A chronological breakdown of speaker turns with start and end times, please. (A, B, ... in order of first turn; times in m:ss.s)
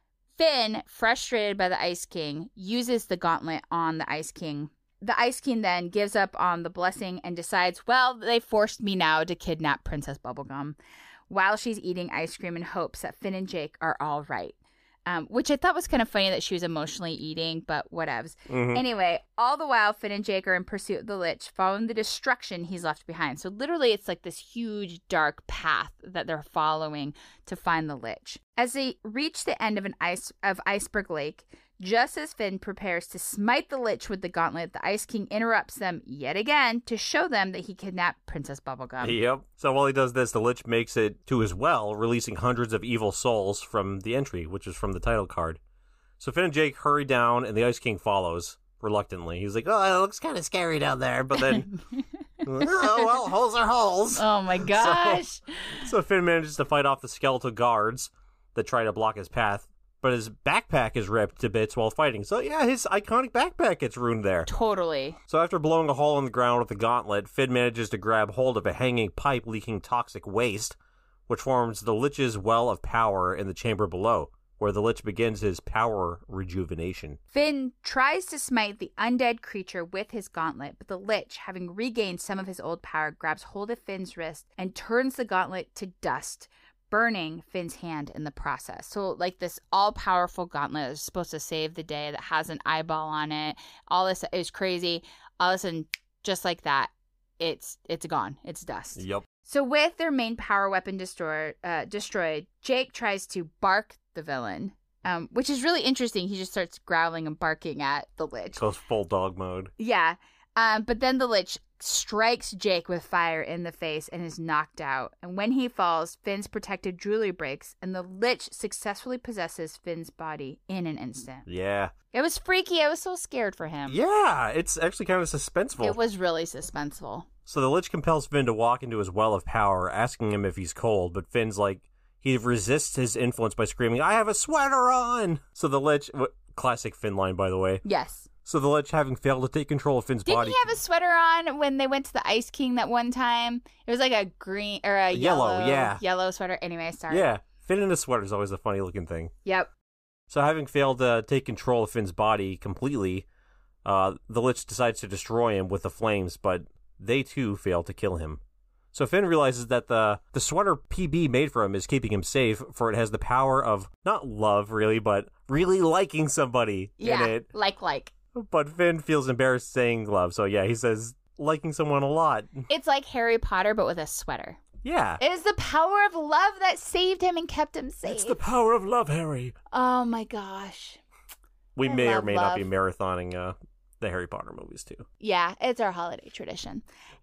0:00.4-0:10.8 A
0:11.3-0:14.6 A
0:15.1-0:39.2 A
0:18.5-0:18.8 B
0:39.0-0:45.6 B
0:46.2-0:51.7 B
0:51.4-0:52.0 A
0:52.4-0:55.2 B
0:52.6-0:53.1 A
0:54.2-0:55.8 A
0:55.8-1:04.5 B
1:04.5-1:05.2 A
1:05.3-1:10.8 B
1:11.3-1:17.2 B
1:17.3-1:48.6 A
1:39.0-1:39.3 B
1:48.6-1:49.7 B
1:49.8-2:01.5 A
2:01.5-2:01.9 B
2:02.1-2:04.0 A
2:03.9-2:06.0 B
2:05.8-2:07.3 A
2:07.5-2:17.8 B
2:17.8-2:18.3 A
2:18.4-2:20.8 B
2:20.2-2:27.3 A
2:25.1-2:26.0 B
2:27.1-2:29.3 B
2:29.4-2:29.7 A
2:30.3-2:33.3 B
2:33.8-2:38.4 B
2:38.9-2:47.5 B
2:47.0-2:48.1 A
2:48.3-2:52.7 B
2:52.7-2:54.6 A
2:54.8-2:55.2 B
2:55.2-2:58.4 A
2:58.0-2:59.6 B
2:59.7-3:01.0 A
3:01.8-3:05.0 B
3:01.8-3:02.7 A
3:05.2-3:06.8 A